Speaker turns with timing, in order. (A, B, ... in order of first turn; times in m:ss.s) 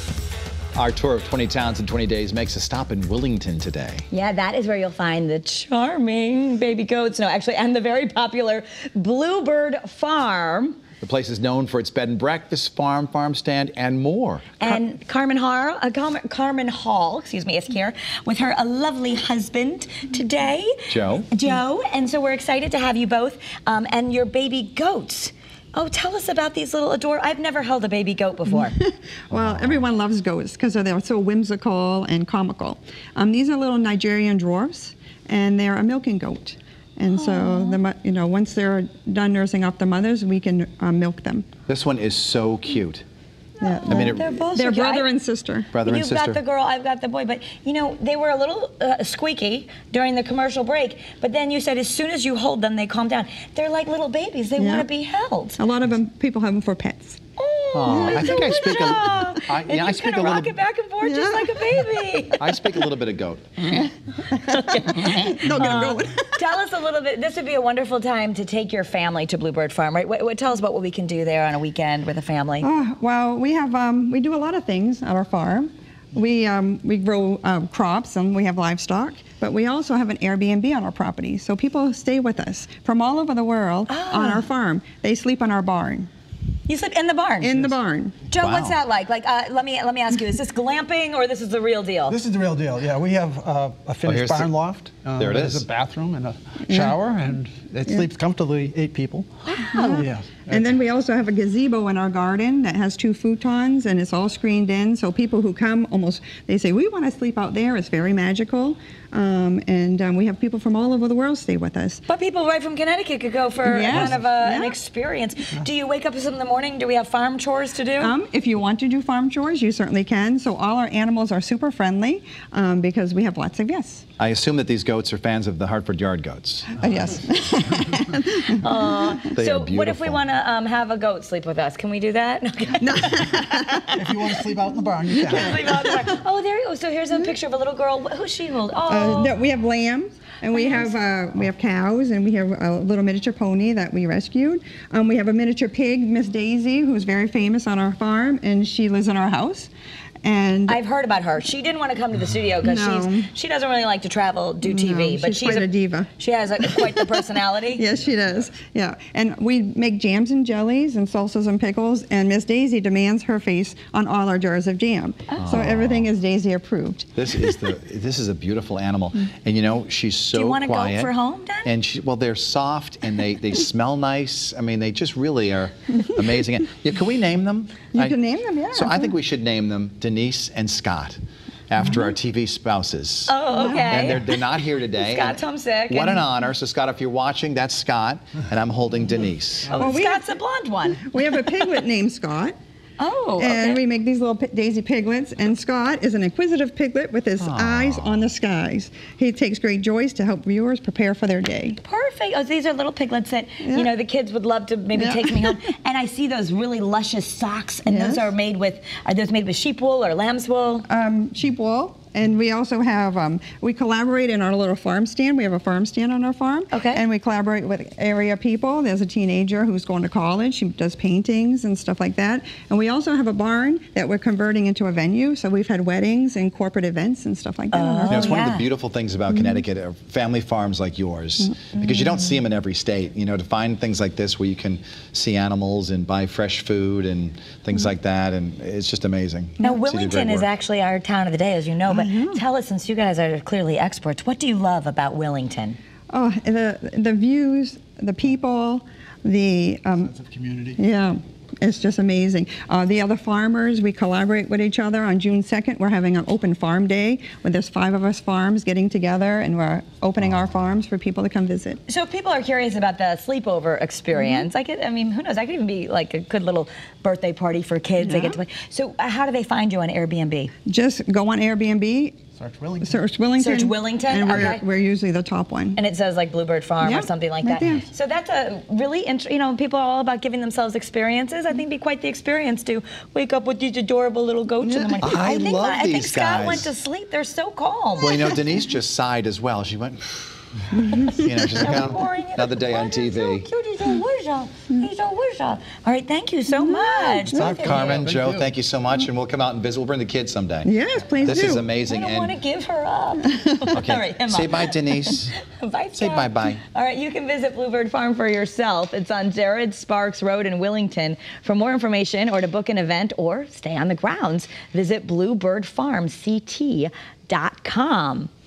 0:00.7-0:04.0 A
0:04.1-0:10.8 B
0:11.0-0:14.6 A
0:14.6-0:28.8 B
0:20.9-0:21.3 A
0:28.5-0:41.5 C
0:37.1-0:37.8 B
0:41.7-0:43.0 A
0:43.6-0:45.1 B
0:43.6-0:45.7 C
0:43.9-0:44.3 A
0:45.7-0:46.4 A
0:45.8-0:55.6 B
0:54.6-0:54.9 C
0:55.6-0:57.2 C
0:57.4-1:02.5 B
0:57.7-1:00.6 A
0:57.9-0:58.5 C
1:01.0-1:01.9 C
1:02.4-1:03.6 A
1:04.3-1:12.7 B
1:04.5-1:06.3 C
1:12.6-1:26.1 C
1:23.9-1:24.4 B
1:26.7-1:27.6 B
1:27.4-1:28.2 C
1:28.3-1:32.2 B
1:28.3-1:28.8 A
1:32.1-1:40.7 D
1:34.0-1:34.5 A
1:35.2-1:35.7 A
1:36.7-1:37.0 C
1:39.5-1:40.0 B
1:39.6-1:52.0 C
1:52.1-1:58.1 B
1:53.6-1:54.8 C
1:58.0-2:04.0 C
2:04.2-2:06.8 A
2:06.8-2:09.1 C
2:08.5-2:13.9 B
2:09.3-2:10.2 A
2:12.8-2:14.1 C
2:13.9-2:15.8 D
2:15.2-2:19.3 B
2:18.9-2:29.7 C
2:20.5-2:21.0 B
2:30.2-2:30.8 C
2:30.7-2:37.8 B
2:32.6-2:33.3 C
2:34.6-2:36.1 C
2:36.6-2:37.0 C
2:37.7-2:47.5 C
2:45.4-2:46.1 A
2:47.2-2:51.1 A
2:50.3-2:51.7 B
2:51.6-2:58.2 A
2:57.9-2:59.1 C
2:58.7-3:01.2 A
3:01.7-3:09.8 A
3:03.3-3:06.2 B
3:03.5-3:04.2 C
3:09.7-3:11.4 B
3:09.7-3:12.5 C
3:13.0-3:13.8 B
3:13.4-3:21.8 C
3:17.4-3:18.3 A
3:21.8-3:30.8 B
3:23.6-3:23.9 C
3:24.9-3:25.5 C
3:27.9-3:28.3 C
3:30.9-3:48.4 C
3:36.7-3:37.0 B
3:47.7-3:48.7 B
3:48.1-4:00.5 A
3:49.3-3:49.6 C
3:59.6-4:05.8 B
4:01.9-4:02.4 C
4:06.1-4:10.1 C
4:10.0-4:10.8 D
4:10.8-4:21.8 C
4:21.9-4:30.5 B
4:24.1-4:24.5 C
4:28.0-4:28.4 C
4:30.7-4:32.2 C
4:32.4-4:33.0 D
4:32.8-4:35.8 C
4:33.4-4:34.6 B
4:35.8-4:48.2 B
4:36.8-4:37.8 C
4:44.6-4:46.7 A
4:48.0-4:50.3 A
4:50.8-4:51.3 C
4:51.1-4:53.5 A
4:51.5-4:58.1 B
4:56.5-4:58.0 C
4:57.4-5:02.3 A
5:00.6-5:01.6 C
5:01.8-5:18.3 B
5:03.3-5:03.6 C
5:03.7-5:05.3 A
5:05.9-5:06.6 A